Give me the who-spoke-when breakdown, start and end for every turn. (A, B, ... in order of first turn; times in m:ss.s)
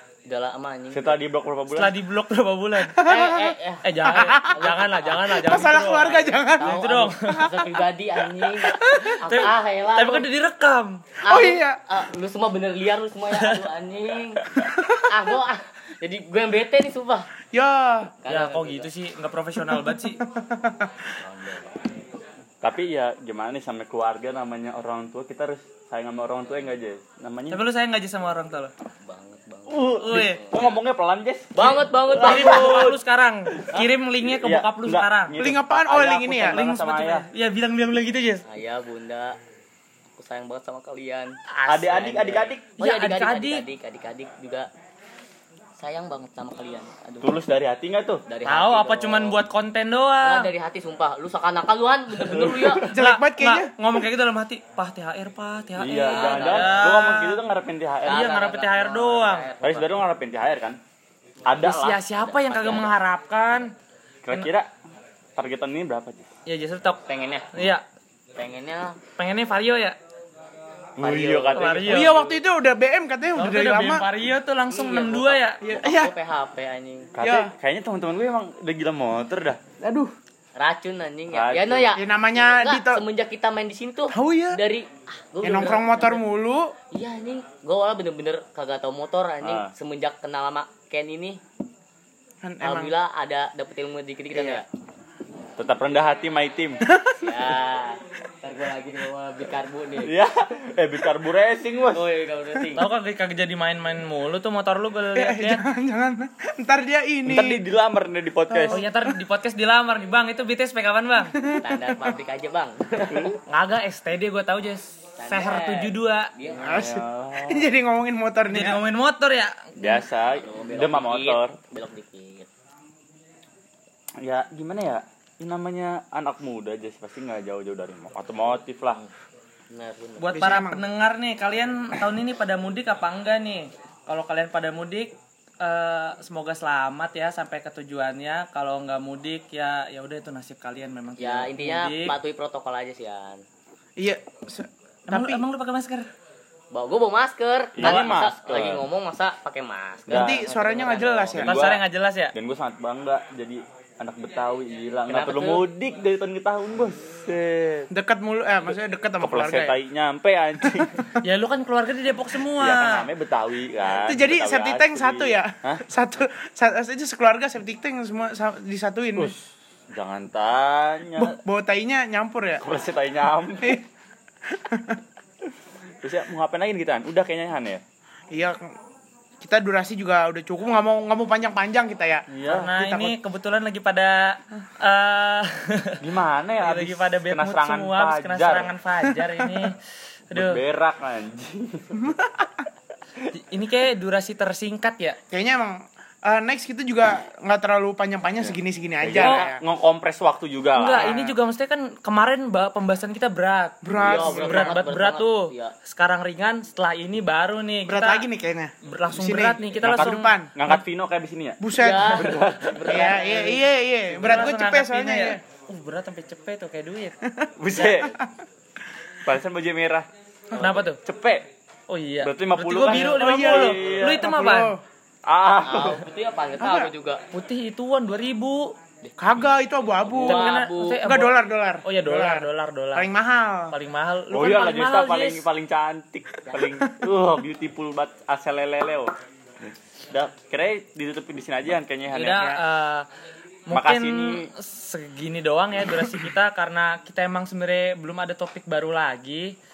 0:00.2-0:01.2 A
0:00.9-0:02.0 B
0:01.7-0:03.0 C
0:02.8-0:03.5 D
0:03.0-0:10.3 A
0:03.8-0:07.5 C
0:04.0-0:04.7 D
0:05.3-0:06.8 D
0:08.4-0:09.1 D
0:09.0-0:11.1 C
0:11.2-0:14.5 A
0:11.2-0:11.8 D
0:13.3-0:13.6 C
0:14.6-0:14.9 D
0:15.1-0:17.3 A
0:17.5-0:18.2 D
0:18.2-0:18.9 A
0:18.3-0:20.2 C
0:19.7-0:21.0 D
0:21.2-0:21.7 A
0:22.6-0:27.6 B
0:27.5-0:28.7 C
0:29.0-0:30.7 A
0:29.7-0:33.0 B
0:30.0-0:30.4 C
0:31.5-0:32.9 A
0:32.2-0:35.4 C
0:33.5-0:37.2 B
0:35.4-0:36.6 D
0:36.5-0:38.4 C
0:38.5-0:39.4 A
0:40.2-0:41.3 A
0:41.5-0:42.1 C
0:41.7-0:42.6 B
0:41.9-0:44.7 A
0:42.8-0:43.6 C
0:45.8-0:47.3 A
0:47.2-0:48.2 B
0:48.3-0:49.4 A
0:48.4-0:50.5 C
0:50.2-0:52.9 A
0:52.2-0:57.4 C
0:52.3-0:52.8 B
0:52.8-0:53.7 D
0:55.8-0:58.3 B
0:55.9-0:57.0 A
0:58.0-0:59.5 C
0:58.0-1:00.0 A
0:59.6-1:00.8 B
1:01.4-1:02.0 B
1:01.6-1:02.9 A
1:01.6-1:03.7 C
1:04.2-1:04.7 B
1:05.4-1:06.3 B
1:06.4-1:07.0 C
1:07.1-1:07.7 A
1:08.4-1:09.0 A
1:09.2-1:10.0 C
1:11.0-1:12.1 B
1:11.0-1:12.3 A
1:11.5-1:12.1 C
1:11.8-1:14.0 D
1:13.4-1:15.6 C
1:14.7-1:17.1 A
1:15.6-1:16.1 D
1:17.1-1:19.6 B
1:17.2-1:17.5 D
1:19.8-1:20.1 D
1:20.6-1:26.2 A
1:21.3-1:21.9 B
1:21.9-1:23.0 D
1:24.1-1:24.6 D
1:25.4-1:26.7 D
1:26.9-1:31.4 A
1:29.4-1:29.7 B
1:32.4-1:32.9 D
1:32.6-1:34.6 A
1:34.3-1:34.6 D
1:35.6-1:36.8 B
1:36.8-1:37.2 D
1:37.2-1:40.1 A
1:40.0-1:42.0 B
1:41.9-1:42.9 A
1:42.7-1:45.6 C
1:45.1-1:47.6 D
1:47.3-1:48.8 B
1:48.5-1:48.8 D
1:48.7-1:51.4 C
1:51.3-1:52.2 D
1:51.6-1:53.3 A
1:53.1-1:53.4 B
1:53.5-1:56.3 C
1:55.2-1:56.8 A
1:56.6-1:58.8 D
1:56.7-1:57.7 B
1:58.5-2:00.0 C
1:59.8-2:01.6 B
2:00.2-2:02.5 A
2:04.2-2:09.0 B
2:09.7-2:10.5 A
2:10.2-2:22.2 C
2:10.3-2:10.9 D
2:21.2-2:23.4 A
2:24.0-2:25.4 D
2:25.1-2:26.1 C
2:26.7-2:31.6 A
2:27.8-2:28.9 B
2:30.1-2:30.4 B
2:30.1-2:31.6 D
2:31.4-2:31.8 B
2:31.4-2:32.3 C
2:32.3-2:37.9 B
2:35.1-2:35.7 A
2:37.9-2:39.8 D
2:39.2-2:41.0 B
2:40.6-2:41.1 D
2:41.2-2:43.1 C
2:42.6-2:45.8 B
2:44.0-2:49.3 D
2:49.2-2:51.4 B
2:51.2-2:52.6 D
2:52.6-2:53.8 B
2:54.5-2:55.0 D
2:56.0-2:57.8 B
2:58.3-2:58.7 D
2:59.4-3:02.3 D
3:02.3-3:02.7 B
3:02.4-3:06.0 C
3:02.8-3:03.1 D
3:06.0-3:08.7 B
3:06.6-3:09.7 C
3:10.3-3:10.6 C
3:10.3-3:12.0 B
3:12.0-3:12.3 D
3:13.3-3:15.2 C
3:15.3-3:19.6 D
3:18.4-3:21.2 B
3:19.2-3:19.4 C
3:20.7-3:28.3 C
3:20.9-3:21.3 D
3:23.8-3:24.8 D
3:23.9-3:25.7 A
3:24.0-3:24.2 B
3:27.9-3:30.5 D
3:28.9-3:30.3 C
3:29.8-3:31.6 B
3:31.6-3:35.4 D
3:31.8-3:33.6 A
3:32.2-3:33.1 B
3:34.1-3:37.2 C
3:37.4-3:38.1 D
3:37.6-3:38.2 B
3:39.2-3:40.1 B
3:40.6-3:41.4 B
3:40.6-3:41.0 C
3:41.9-3:44.8 C
3:42.2-3:44.2 B
3:42.9-3:44.8 D
3:45.2-3:46.0 B
3:45.6-3:47.2 A
3:46.6-3:46.9 D
3:47.3-3:48.7 C
3:49.2-3:53.7 D
3:50.0-3:51.0 A
3:50.2-3:53.1 C
3:53.7-3:55.4 C
3:54.3-3:59.1 B
4:00.1-4:02.6 B
4:02.1-4:03.1 C
4:03.7-4:09.6 C
4:03.7-4:04.5 B